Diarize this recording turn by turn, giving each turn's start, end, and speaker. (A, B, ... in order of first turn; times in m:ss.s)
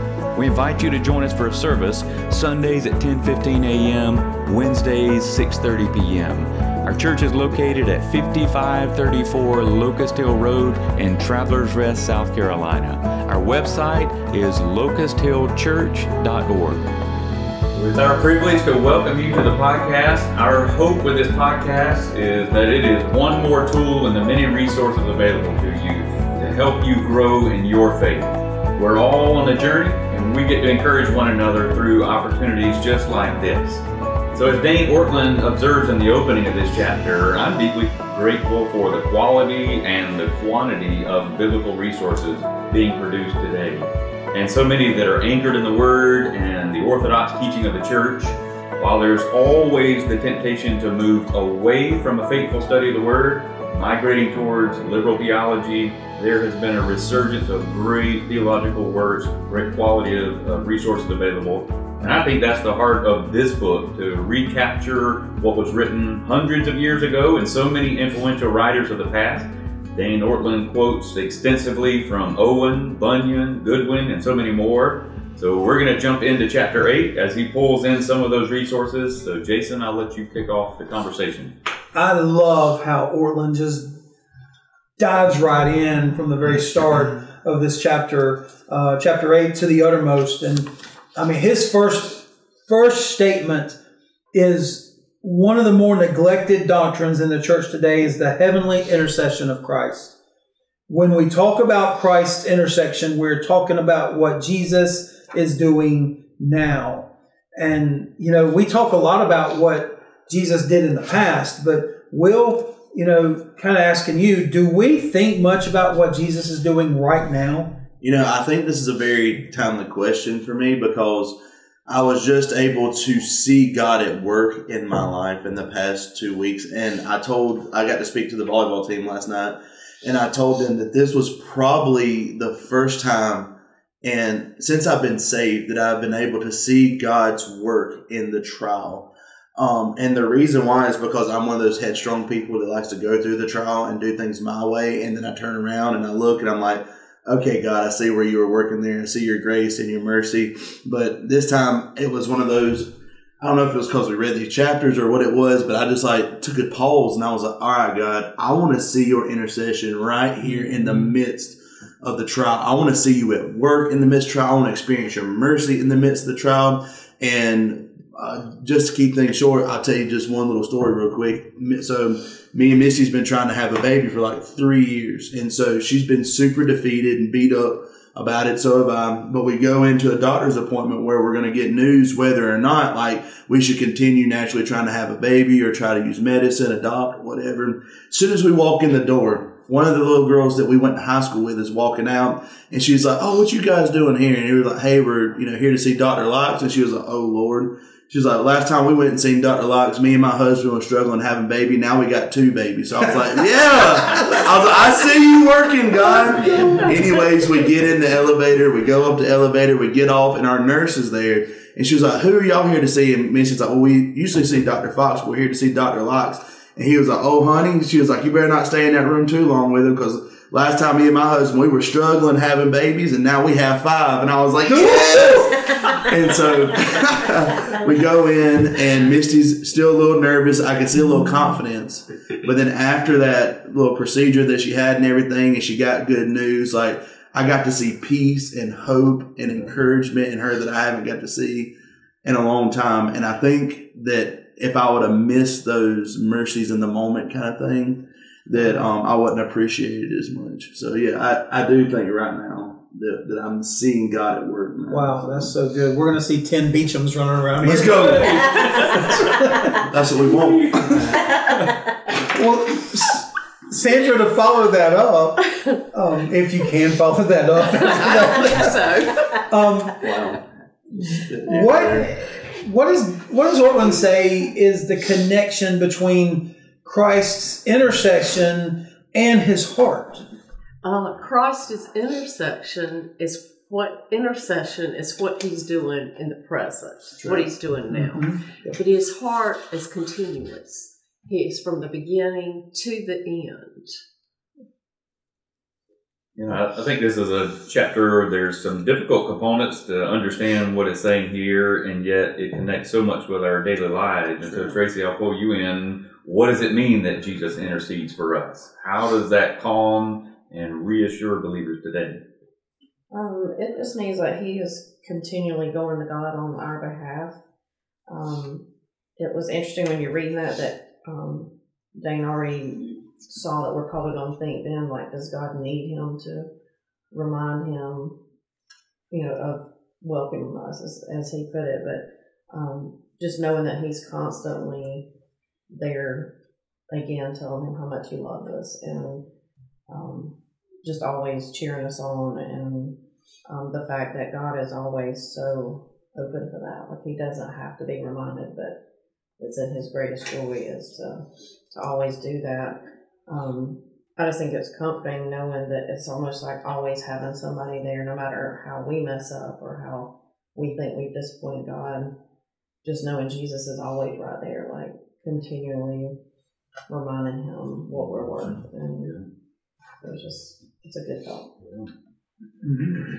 0:00.3-0:16.8 A
0:17.7-1:21.5 A
1:21.9-1:24.0 B
1:25.0-1:33.8 B
1:34.3-1:40.1 B
1:40.9-1:57.7 B
1:58.0-4:01.7 C
4:02.2-4:15.5 C
4:15.1-4:18.1 B
4:17.6-4:18.6 C
4:19.8-4:21.2 C
4:22.3-4:25.4 B
4:26.0-4:28.4 B
4:27.7-4:29.5 D
4:30.0-4:30.4 C
4:31.1-4:32.2 C
4:31.5-4:32.1 D
4:32.5-4:40.3 B
4:40.8-4:53.9 D
4:56.5-5:12.2 A
5:13.1-5:17.4 E
5:18.1-5:18.6 E
5:19.2-5:26.5 E
5:27.1-5:28.2 E
5:29.1-5:35.1 E
5:35.7-5:36.3 E
5:36.9-5:39.2 E
5:39.9-5:43.0 E
5:43.5-5:48.8 E
5:49.4-6:02.1 E
6:02.8-6:06.2 E
6:06.9-6:09.2 E
6:08.0-6:09.2 A
6:10.0-6:11.5 E
6:12.7-6:12.9 B